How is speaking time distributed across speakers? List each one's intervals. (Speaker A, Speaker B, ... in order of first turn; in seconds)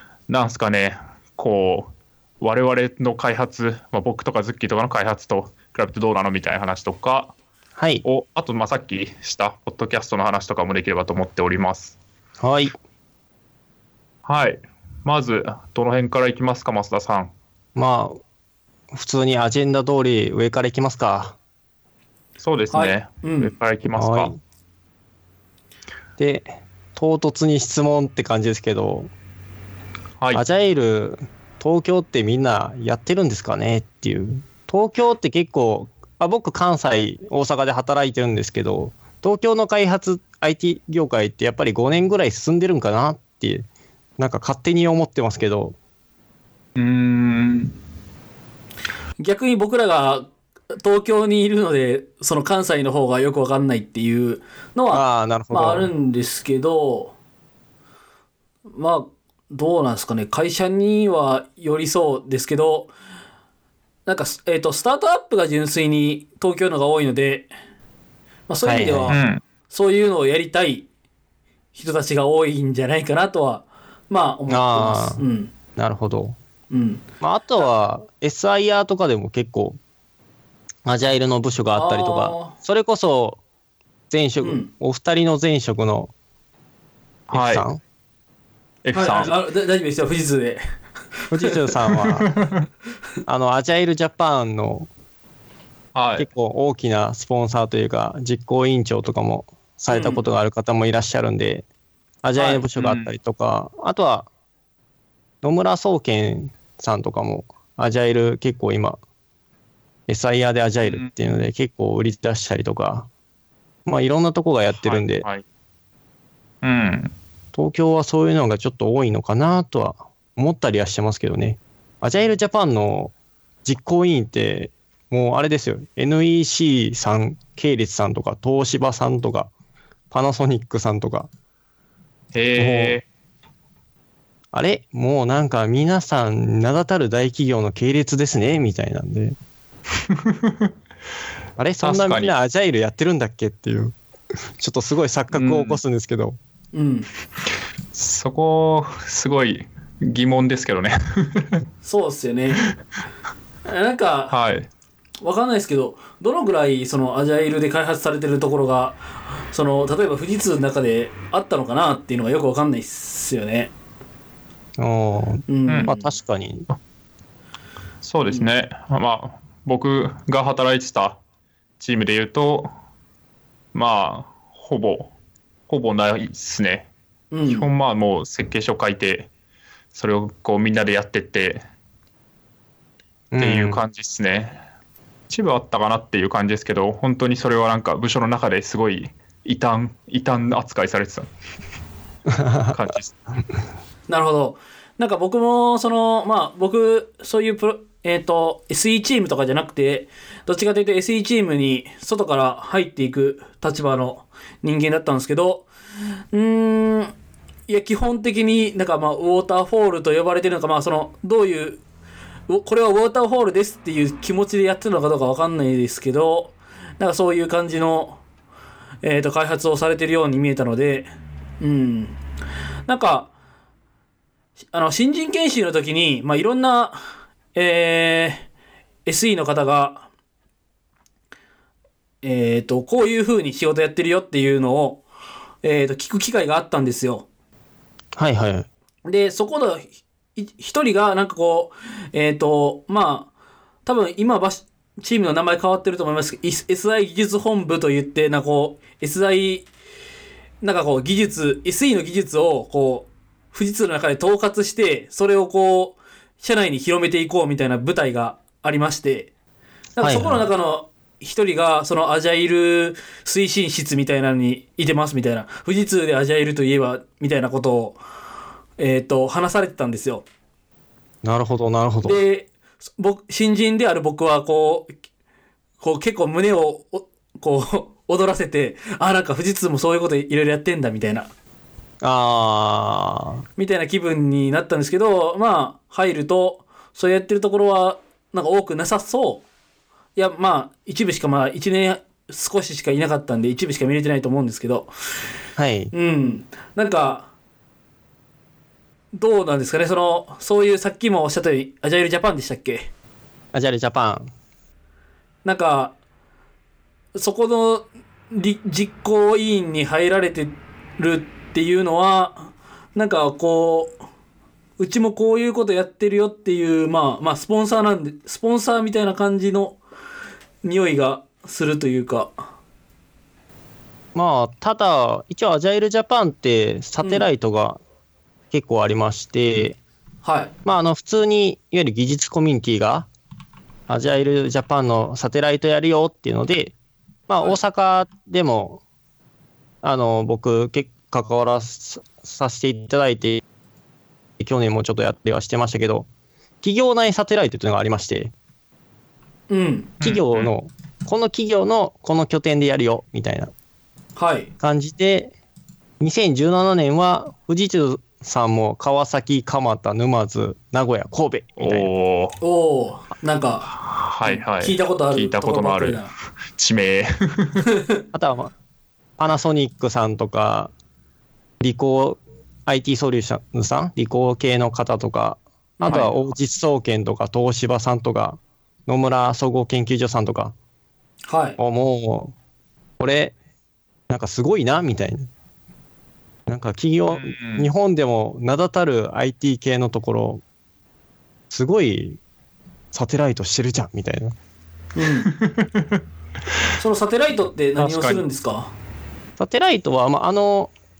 Speaker A: 0.3-7.3, 8.0-12.0, 14.2-17.3, 22.4-24.3, 46.8-47.8, 69.1-69.4, 87.3-87.6, 88.8-89.3, 91.9-92.7, 95.9-96.3, 102.8-103.1, 110.8-111.1, 114.8-115.4, 116.6-117.1, 132.3-133.0, 140.1-140.7, 141.8-142.3, 145.3-145.8, 147.9-151.6, 154.3-154.7, 168.0-171.2, 171.8-172.7, 173.7-175.1, 175.7-176.9, 177.5-179.3, 179.9-181.6, 183.4-184.6, 185.3-191.3, 192.7-193.1, 350.0-350.5, 361.6-362.4, 363.8-366.0, 366.6-367.6, 387.1-387.7, 395.3-396.0, 397.8-398.2
Speaker B: 7.8-8.0, 12.4-12.7, 17.8-18.2, 18.9-21.4, 23.9-24.4, 26.2-29.1, 30.3-43.6, 44.2-45.8, 54.9-55.9, 68.6-69.2, 74.5-75.2, 75.8-76.4, 77.2-79.8, 80.8-83.4, 84.1-86.1, 87.3-87.8, 91.3-92.3, 93.2-94.9, 96.2-101.6, 102.2-104.3, 105.4-109.0, 110.1-113.1, 113.8-115.2, 117.5-123.1, 123.6-129.5, 130.1-131.3, 132.6-133.0, 134.5-139.4, 141.6-143.9, 144.6-146.4, 164.8-166.7, 183.3-183.8, 192.3-192.8, 238.1-238.7, 260.0-260.4, 271.2-272.2, 282.0-283.4, 295.6-295.9, 303.5-304.3, 324.1-327.8, 328.5-329.8, 330.6-333.1, 333.9-336.7, 337.3-338.8, 339.8-343.4, 344.4-346.1, 346.6-348.3, 350.0-353.5, 354.6-355.3, 356.0-361.9, 368.1-368.5, 369.2-370.7, 371.6-380.5, 381.6-382.3, 383.0-383.3, 384.1-385.3, 386.5-390.4, 391.5-392.2, 392.9-394.3, 399.4-400.7
Speaker C: 22.7-23.5, 49.2-57.1, 58.7-62.9, 64.0-67.5, 68.5-70.9, 71.7-75.5, 76.7-77.0, 81.7-82.5, 84.4-84.7, 88.9-90.6, 91.3-91.7, 99.9-100.2, 102.4-102.6, 146.7-147.1, 151.8-152.6, 153.7-154.3, 155.2-163.7, 165.5-166.1, 177.3-177.7, 194.1-205.7, 206.3-207.1, 207.7-211.8, 212.5-218.2, 219.0-221.1, 221.6-222.2, 222.9-223.3, 224.7-227.0, 227.5-228.5, 229.1-230.1, 232.2-235.0, 235.6-237.3, 239.1-243.3, 243.8-249.7, 250.6-259.3, 260.0-268.0, 268.8-270.2, 272.0-274.9, 275.8-281.3, 283.6-289.4, 290.1-294.9, 295.9-297.3, 299.1-302.9, 305.4-305.9, 307.1-313.9, 314.8-319.8, 320.6-322.3, 330.2-330.5, 349.5-349.9, 354.2-354.5, 362.4-363.7, 364.2-366.1, 367.7-368.0, 375.8-376.1, 381.3-381.6, 394.9-395.3, 396.8-398.7